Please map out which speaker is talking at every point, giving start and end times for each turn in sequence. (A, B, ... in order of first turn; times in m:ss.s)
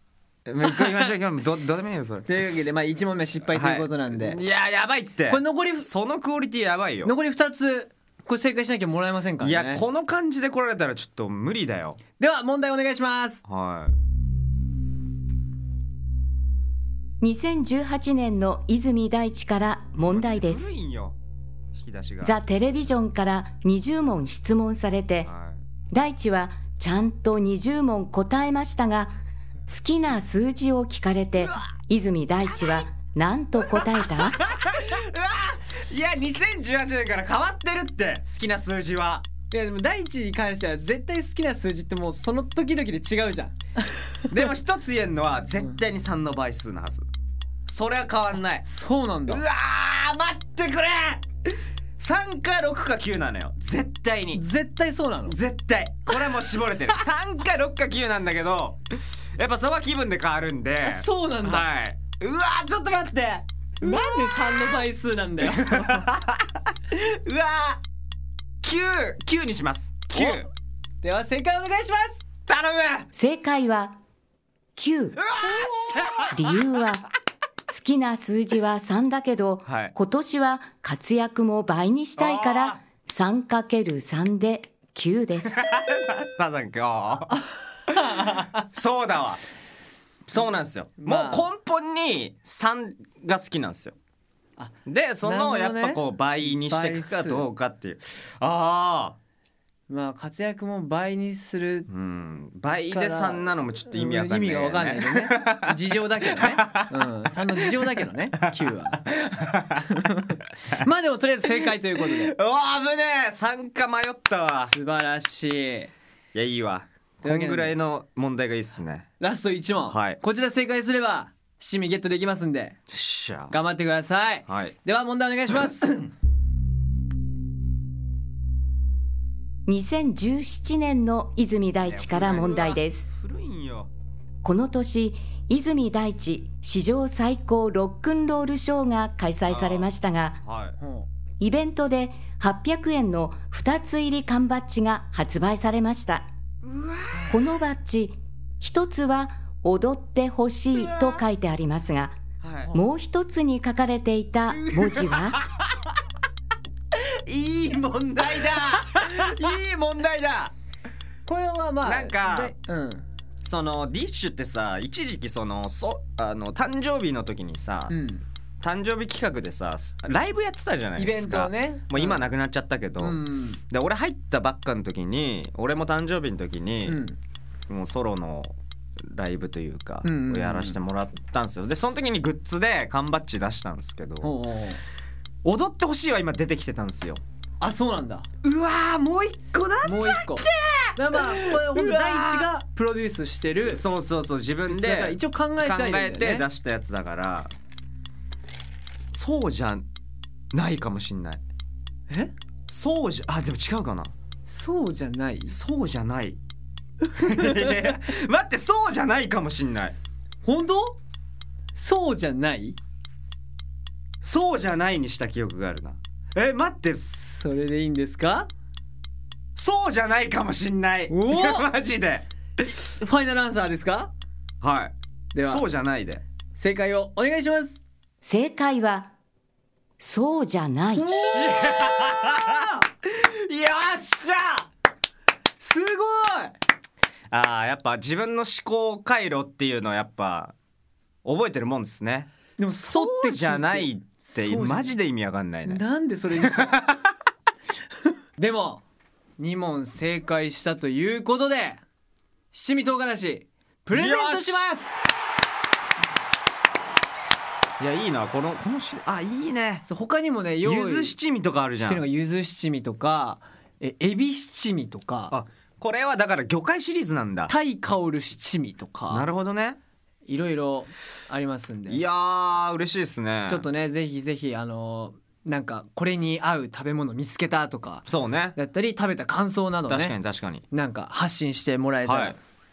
0:00.5-0:02.3 A
0:00.6-0:01.1 B
0:02.3-0:04.4 B
0:03.5-0:07.1 A
0:05.3-0:05.9 B
0:07.0-0:09.8 B
0:09.4-0:12.0 A
0:12.2-0:13.4 B
0:13.4-0:14.0 A
0:17.2-0:20.7 C
0:20.1-0:21.2 A
0:21.7-0:22.4 A
0:22.2-0:25.3 C
0:25.2-0:25.6 A
0:25.9-0:29.2 C
0:29.7-0:34.4 C
0:32.5-0:32.8 A
0:33.8-0:39.2 A
0:39.5-0:44.4 B
0:44.3-0:47.1 A
0:47.7-0:48.6 A
0:48.6-0:49.4 B
0:49.3-0:51.2 A
0:52.0-0:54.4 A
0:54.3-0:55.4 B
0:55.3-1:04.8 A
1:00.8-1:01.7 B
1:03.8-1:06.1 B
1:05.4-1:07.8 A
1:08.6-1:10.5 A
1:10.1-1:10.4 B
1:11.0-1:12.2 B
1:12.5-1:13.1 A
1:13.1-1:14.0 C
1:14.8-1:15.4 C
1:15.3-1:16.3 A
1:16.3-1:17.1 C
1:17.7-1:25.6 C
1:19.7-1:19.9 A
1:22.2-1:22.8 A
1:25.4-1:27.4 A
1:28.0-1:28.5 B
1:28.6-1:29.4 A
1:30.3-1:34.0 A
1:31.0-1:31.5 B
1:34.6-1:37.5 B
1:34.9-1:39.2 A
1:39.9-1:41.9 B
1:41.9-1:48.4 A
1:42.9-1:49.1 B
1:49.0-1:49.9 A
1:49.8-1:52.4 B
1:51.5-1:54.7 A
1:54.6-1:55.9 B
1:56.3-1:59.1 A
1:57.2-1:57.8 B
1:59.2-2:02.8 B
1:59.9-2:00.2 A
2:02.9-2:03.6 A
2:03.5-2:06.1 B
2:04.5-2:04.8 A
2:09.7-2:13.1 C
2:11.8-2:13.9 A
2:14.4-2:20.4 C
2:19.5-2:19.9 A
2:20.4-2:20.8 A
2:20.8-2:21.1 B
2:21.4-2:26.3 C
2:26.6-2:27.5 A
2:27.3-2:32.2 C
2:30.8-2:31.2 A
2:32.4-2:32.8 A
2:32.7-2:35.4 C
2:34.5-2:35.7 A
2:37.3-2:40.5 A
2:41.3-2:43.1 B
2:41.8-2:42.6 A
2:43.4-2:48.0 A
2:47.9-2:48.2 B
2:48.6-2:57.0 A
2:51.0-2:52.3 B
2:53.0-2:53.6 B
2:56.8-2:57.2 B
2:57.7-2:58.6 A
2:59.1-3:04.3 A
3:00.0-3:00.8 B
3:04.2-3:04.8 B
3:05.4-3:07.2 A
3:07.6-3:08.3 B
3:08.4-3:12.5 A
3:09.8-3:13.8 B
3:13.7-3:17.5 A
3:14.7-3:16.5 B
3:19.1-3:19.9 A
3:20.5-3:21.4 A
3:22.7-3:24.1 A
3:24.5-3:25.6 B
3:25.5-3:26.4 A
3:27.1-3:30.0 A
3:27.2-3:27.9 B
3:30.4-3:31.0 B
3:31.7-3:32.8 B
3:34.2-3:37.3 A
3:37.2-3:38.5 B
3:39.6-3:42.3 A
3:41.1-3:41.7 B
3:43.0-3:44.1 B
3:44.6-3:46.2 A
3:45.3-3:45.6 B
3:46.6-3:47.8 B
3:48.2-3:49.1 C
3:50.0-3:51.2 C
3:51.0-3:51.9 B
3:51.0-3:54.7 A
3:55.6-3:56.6 B
3:57.3-4:00.6 A
4:01.2-4:05.8 A
4:02.6-4:04.9 B
4:05.7-4:06.9 B
4:06.4-4:07.0 A
4:08.4-4:08.8 B
4:09.4-4:11.8 B
4:12.5-4:15.0 B
4:13.9-4:14.6 A
4:17.8-4:19.9 A
4:19.9-4:21.2 B
4:20.6-4:22.0 A
4:21.8-4:25.4 B
4:25.3-4:27.5 A
4:27.5-4:29.3 B
4:29.1-4:29.8 A
4:30.3-4:32.0 B
4:31.9-4:33.7 A
4:33.5-4:40.2 B
4:38.0-4:38.6 A
4:39.9-4:40.6 A
4:40.7-4:42.4 B
4:42.0-4:42.4 A